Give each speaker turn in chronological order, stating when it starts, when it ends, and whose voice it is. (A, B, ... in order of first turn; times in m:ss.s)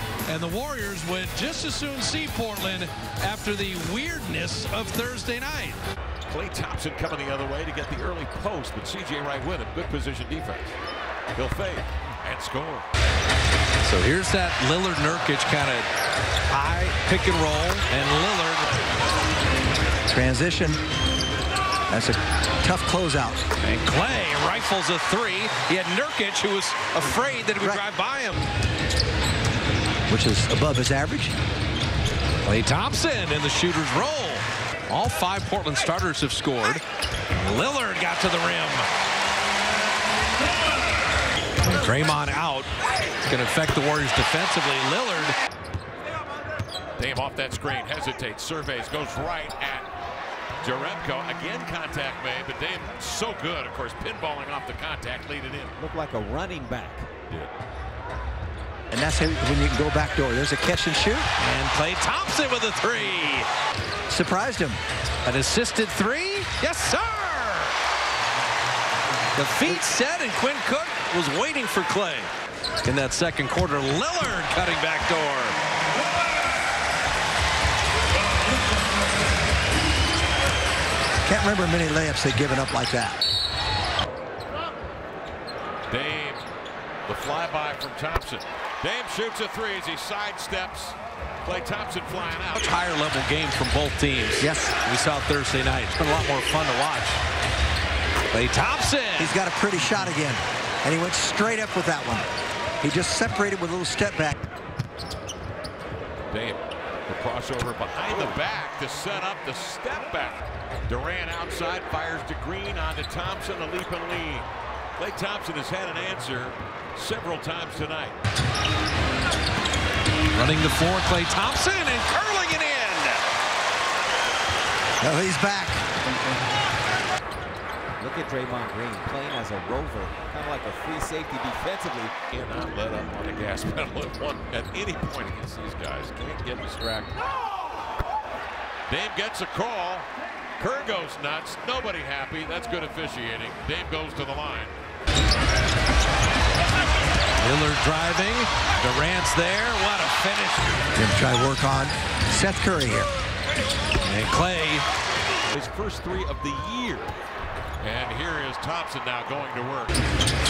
0:00.3-0:05.8 A
0:06.3-0:10.8 B
0:11.3-0:12.9 B
0:13.8-0:15.9 A
0:16.5-0:18.7 A
0:20.1-0:20.8 C
0:21.9-0:23.4 C
0:23.6-0:28.5 A
0:27.6-0:27.8 C
0:30.1-0:31.4 C
0:32.4-0:38.9 A
0:41.6-0:42.7 A
0:43.2-0:45.4 A
0:47.0-0:49.9 B
0:50.6-0:55.8 B
0:55.8-0:57.1 D
0:57.3-0:57.5 B
0:58.9-1:01.3 C
1:01.4-1:03.4 A
1:04.1-1:04.8 C
1:05.2-1:07.7 A
1:09.3-1:12.3 A
1:12.8-1:15.6 A
1:21.2-1:23.2 C
1:25.9-1:26.4 B
1:27.0-1:32.7 B
1:32.6-1:37.2 A
1:34.4-1:34.8 C
1:38.3-1:39.4 A
1:39.2-1:42.3 C
1:42.8-1:44.4 C
1:46.3-1:58.2 B
2:00.3-2:03.2 A
2:05.0-2:05.8 C
2:08.0-2:12.2 D
2:12.3-2:17.2 B
2:18.9-2:20.1 B
2:20.6-2:24.7 B
2:27.4-2:30.7 A
2:30.9-2:33.1 C
2:34.0-2:34.8 A
2:35.5-2:37.1 B
2:37.8-2:40.0 B